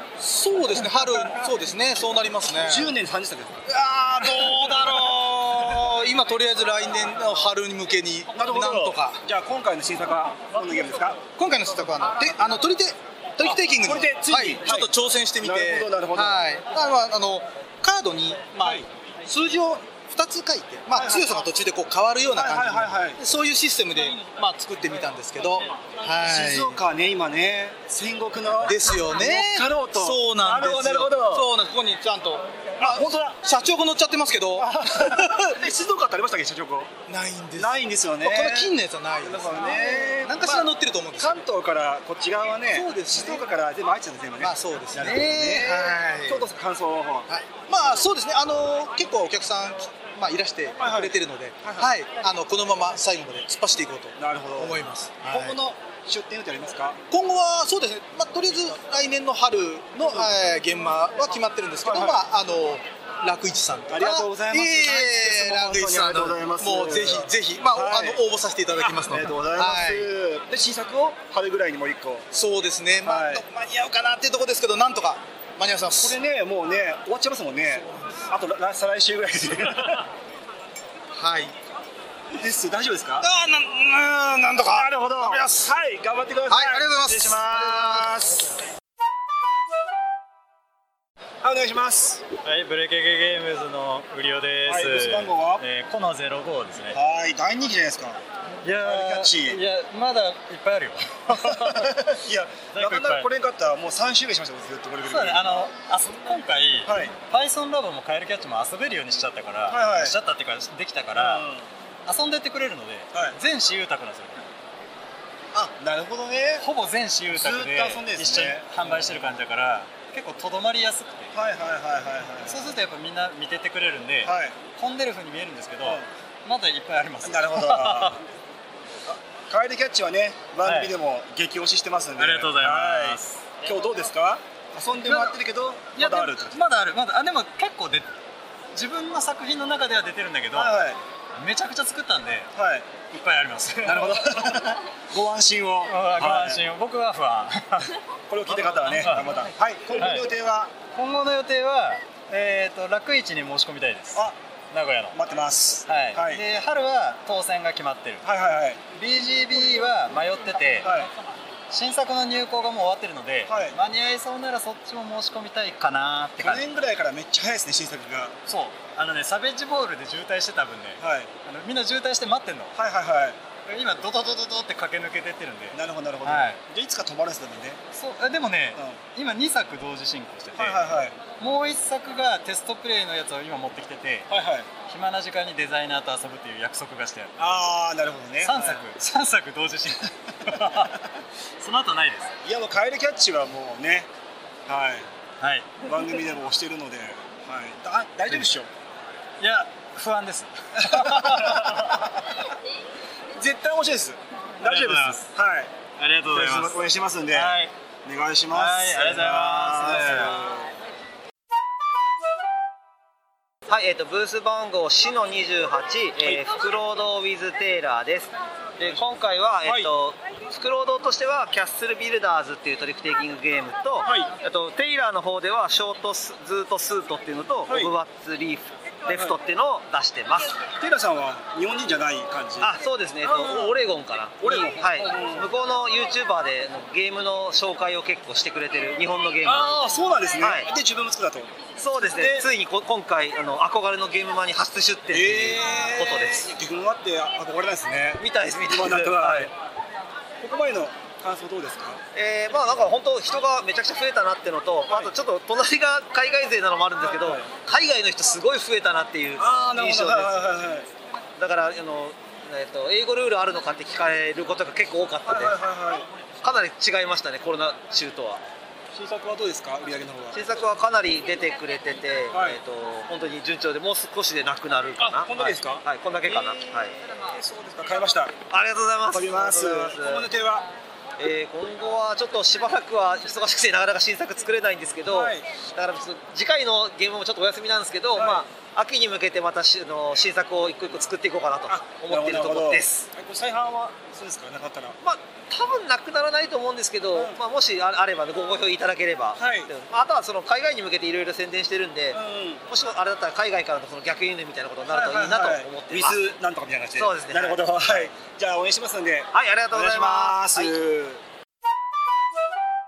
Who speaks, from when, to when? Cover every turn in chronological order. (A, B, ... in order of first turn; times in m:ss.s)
0:00.2-0:02.9 A
0:02.6-0:03.6 B
0:03.7-0:09.2 A
0:08.3-0:11.3 B
0:11.3-0:26.8 A
0:13.4-0:16.5 B
0:18.6-0:18.9 B
0:20.9-0:21.3 B
0:22.3-0:23.2 B
0:26.1-0:31.5 B
0:28.7-0:35.5 A
0:32.8-0:33.4 B
0:34.6-0:36.9 B
0:37.1-0:41.4 A
0:37.6-0:48.1 B
0:42.7-0:43.5 A
0:44.4-0:46.5 A
0:47.3-0:55.6 A
0:50.8-0:51.9 B
0:54.2-0:57.0 B
0:57.1-1:10.1 A
1:00.0-1:00.3 B
1:01.8-1:02.2 B
1:03.9-1:08.2 B
1:08.8-1:12.3 B
1:12.3-1:16.2 A
1:13.0-1:13.4 B
1:15.9-1:20.0 B
1:21.1-1:21.5 A
1:22.4-1:23.3 B
1:23.2-1:25.7 A
1:24.6-1:28.4 B
1:26.5-1:28.2 A
1:31.4-1:32.2 B
1:32.4-1:37.0 C
1:34.7-1:35.6 B
1:36.9-1:38.2 B
1:38.6-1:42.0 C
1:38.8-1:39.6 B
1:41.3-1:45.7 B
1:42.7-1:43.3 C
1:45.0-1:51.5 C
1:46.9-1:47.1 B
1:49.7-1:50.2 B
1:51.1-1:51.6 B
1:52.1-1:54.5 C
1:55.5-1:56.6 B
1:56.6-2:01.3 C
1:57.3-1:59.2 B
2:01.3-2:02.8 B
2:02.5-2:08.2 C
2:04.2-2:04.6 B
2:07.2-2:08.2 B
2:09.1-2:16.6 B
2:10.6-2:11.0 C
2:12.2-2:13.4 C
2:15.0-2:15.4 C
2:16.0-2:18.1 C
2:18.7-2:20.7 C
2:20.5-2:21.0 B
2:21.4-2:22.5 C
2:22.6-2:22.9 B
2:23.1-2:24.6 C
2:23.8-2:26.6 B
2:25.9-2:27.9 C
2:28.3-2:30.7 B
2:28.5-2:30.3 C
2:30.9-2:35.2 C
2:35.1-2:36.4 B
2:35.9-2:38.2 C
2:38.2-2:38.8 B
2:39.0-2:41.1 C
2:40.8-2:41.1 B
2:41.7-2:46.7 C
2:43.5-2:43.8 B
2:46.4-2:48.4 B
2:48.5-2:52.8 C
2:51.0-2:51.3 B
2:52.8-2:53.4 B
2:53.7-2:56.6 C
2:55.7-2:57.8 B
2:57.9-3:04.3 C
3:00.6-3:01.2 B
3:04.3-3:04.7 B
3:04.9-3:07.4 C
3:07.4-3:08.8 B
3:08.4-3:11.0 C
3:11.6-3:12.3 C
3:12.4-3:14.1 B
3:14.7-3:15.1 B
3:15.4-3:15.9 C
3:15.8-3:18.7 B
3:19.4-3:22.0 C
3:20.9-3:22.0 B
3:23.3-3:25.7 B
3:24.6-3:25.3 C
3:26.0-3:27.7 C
3:26.3-3:30.7 B
3:28.5-3:30.4 C
3:33.7-3:50.6 D
3:39.6-3:39.9 B
3:44.0-3:44.3 B
3:47.7-3:47.9 B
3:49.1-3:49.4 B
3:50.8-3:53.8 B
3:52.6-3:59.8 D
3:54.4-3:55.5 B
3:59.4-4:02.5 B
4:00.4-4:00.7 D
4:01.8-4:06.5 D
4:05.1-4:09.5 B
4:08.2-4:09.5 D
4:10.4-4:12.0 B
4:12.2-4:20.4 D
4:17.0-4:17.5 B
4:19.4-4:20.9 B
4:21.4-4:25.6 D
4:25.3-4:26.1 B
4:26.4-4:28.4 D
4:28.9-4:30.4 B
4:30.3-4:36.9 D
4:32.3-4:32.6 B
4:35.0-4:38.4 B
4:38.5-4:40.3 D
4:39.1-4:40.7 B
4:41.2-4:53.1 D
4:45.1-4:45.4 B
4:48.2-4:48.4 B
4:51.7-4:55.0 B
4:55.0-5:06.2 D
4:59.4-4:59.7 B
5:02.1-5:02.6 B
5:04.9-5:11.2 B
5:07.0-5:07.8 D
5:09.3-5:10.8 D